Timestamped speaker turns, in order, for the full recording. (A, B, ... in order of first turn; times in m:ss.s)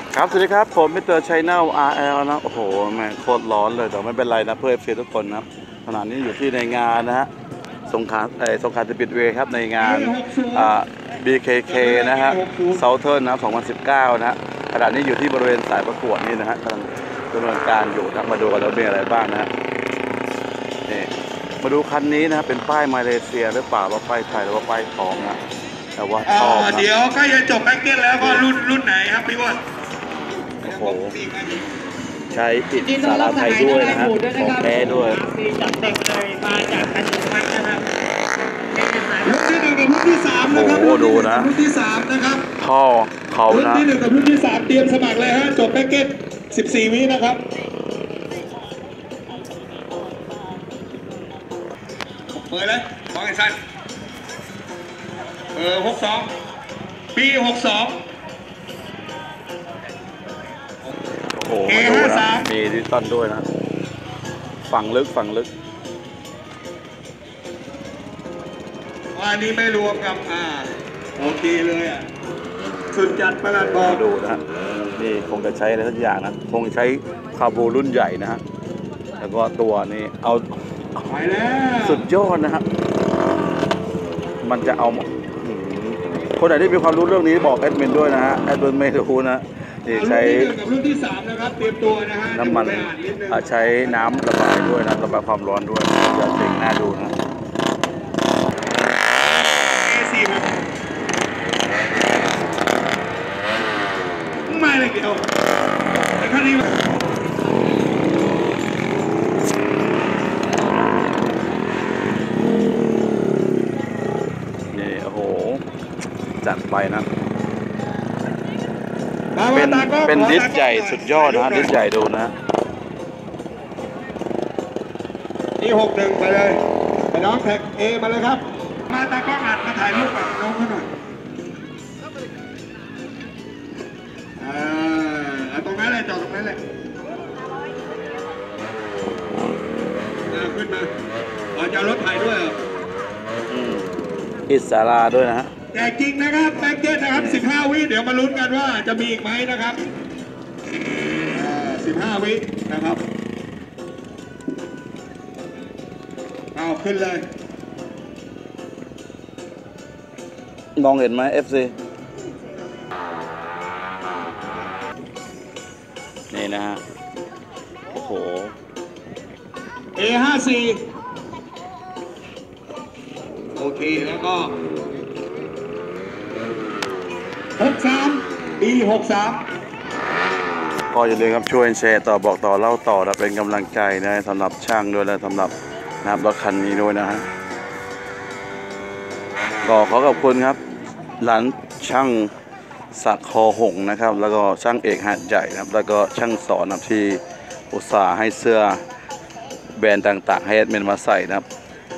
0:00.1-0:07.3 A
0:07.9-0:19.5 A
0:09.8-0:10.7 B
0:11.7-0:12.8 B
0:20.9-0:25.4 A
0:26.0-0:26.9 A
0:26.2-0:29.6 B
0:28.2-0:28.4 A
0:30.6-0:31.1 A
0:30.6-0:31.7 B
0:32.3-0:35.2 A
0:32.8-0:37.8 C
0:33.6-0:34.1 B
0:38.8-0:39.1 C
0:38.8-0:42.5 B
0:40.5-0:41.5 A
0:42.6-0:43.9 A
0:43.5-0:47.4 B
0:52.3-0:53.6 B
0:55.6-0:56.3 B
0:57.1-0:58.0 B
1:01.2-1:03.5 A
1:01.7-1:02.5 B
1:04.7-1:05.5 A
1:09.1-1:12.1 B
1:12.9-1:14.0 B
1:13.6-1:14.4 A
1:15.0-1:18.4 A
1:19.2-1:20.4 A
1:21.1-1:22.0 B
1:21.8-1:22.6 A
1:24.4-1:30.5 A
1:29.9-1:34.0 B
1:32.3-1:37.1 A
1:39.6-1:40.6 B
1:44.5-1:45.3 B
1:46.2-1:46.8 B
1:54.7-1:55.6 A
1:56.4-1:57.1 A
1:59.4-2:01.8 B
1:59.5-2:02.3 A
2:05.6-2:06.6 B
2:07.1-2:10.9 B
2:14.4-2:16.6 B
2:20.3-2:20.9 B
2:21.6-2:22.6 B
2:23.5-2:23.9 A
2:24.5-2:25.5 A
2:25.7-2:29.8 B
2:27.1-2:27.4 A
2:31.3-2:33.0 B
2:36.5-2:37.2 B
2:40.8-2:41.7 A
2:46.3-2:46.8 A
2:47.9-2:48.6 A
2:50.0-2:50.8 B
2:53.6-2:54.6 B
2:57.6-2:59.4 B
3:00.9-3:05.5 A
3:06.0-3:07.3 A
3:09.6-3:10.6 A
3:11.2-3:12.3 A
3:12.9-3:18.8 A
3:19.8-3:21.4 A